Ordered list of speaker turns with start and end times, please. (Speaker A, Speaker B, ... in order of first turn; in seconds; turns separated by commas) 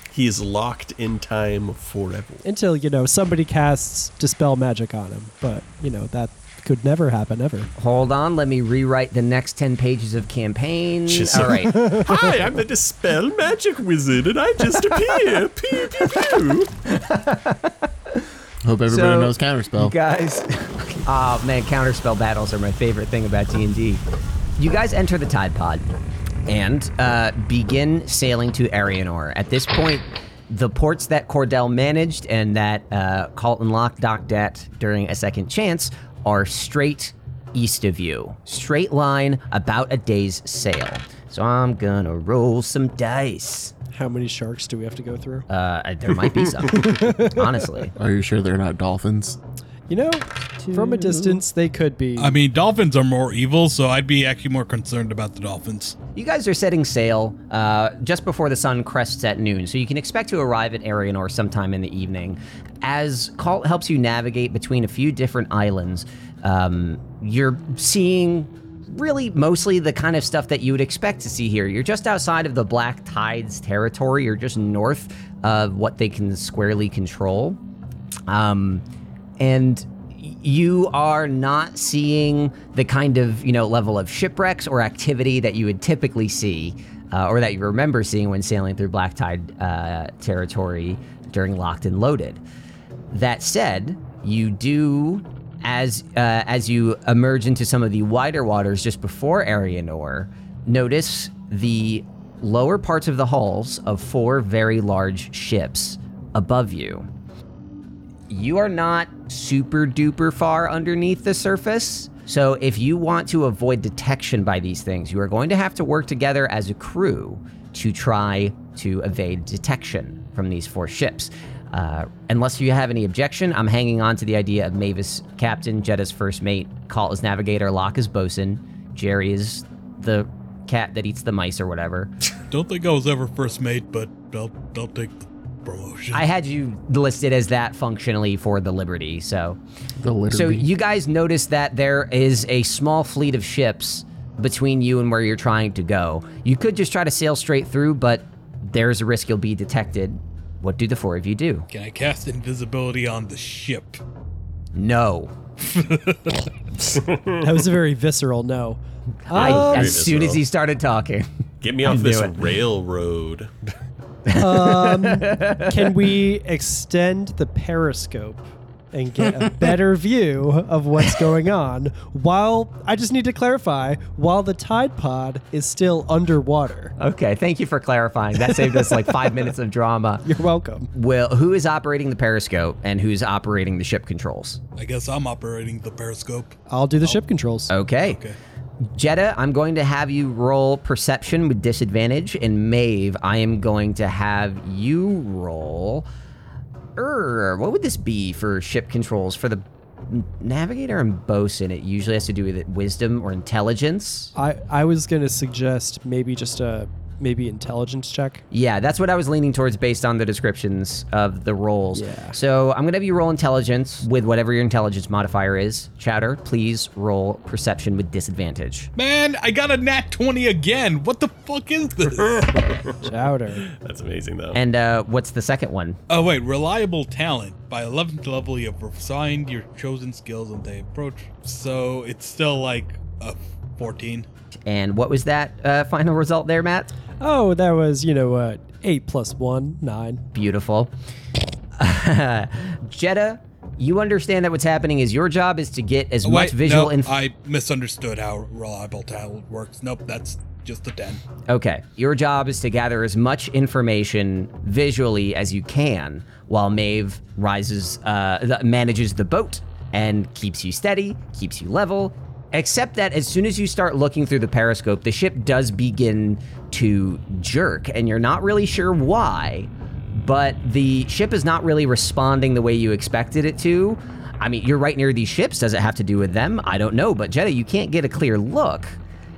Speaker A: 0.1-2.5, Speaker B: 2.5-7.7, Speaker C: 7.8-11.8, Speaker A: 11.1-16.7, Speaker B: 11.8-12.2, Speaker C: 16.9-18.2, Speaker D: 18.6-19.9, Speaker C: 18.9-24.0, Speaker C: 24.6-25.8, Speaker C: 26.5-43.7, Speaker B: 43.9-45.5, Speaker C: 45.5-47.9, Speaker B: 46.7-47.5, Speaker D: 48.0-49.4, Speaker B: 49.9-52.4, Speaker C: 50.6-51.4, Speaker E: 52.2-56.0, Speaker C: 56.2-77.6, Speaker C: 78.3-78.8, Speaker C: 79.4-92.4, Speaker C: 93.1-107.1, Speaker C: 108.3-132.1, Speaker E: 132.5-136.2, Speaker C: 136.1-139.6, Speaker D: 140.0-140.7, Speaker C: 140.3-151.7, Speaker E: 151.7-154.0, Speaker C: 154.8-155.3, Speaker E: 155.7-156.5, Speaker A: 156.9-157.4, Speaker B: 157.4-160.0, Speaker C: 159.3-161.3, Speaker A: 159.3-160.4, Speaker A: 161.6-163.5, Speaker C: 161.8-162.5, Speaker C: 164.3-166.0, Speaker B: 164.3-177.0, Speaker C: 177.0-180.2, Speaker B: 178.4-179.3, Speaker B: 180.2-180.9, Speaker C: 180.9-184.6, Speaker E: 184.8-187.2, Speaker B: 186.7-187.7, Speaker C: 187.7-188.2, Speaker E: 188.0-188.4, Speaker C: 188.9-196.1, Speaker C: 197.0-204.3, Speaker B: 204.3-208.4, Speaker C: 208.5-218.9, Speaker B: 211.9-212.3, Speaker E: 219.0-222.8, Speaker B: 223.0-223.7, Speaker A: 223.7-224.6, Speaker C: 224.5-226.0, Speaker E: 226.1-234.3, Speaker C: 234.7-236.9, Speaker B: 237.2-240.2, Speaker C: 240.3-240.9, Speaker C: 241.8-247.1, Speaker E: 246.2-251.2, Speaker C: 251.5-279.0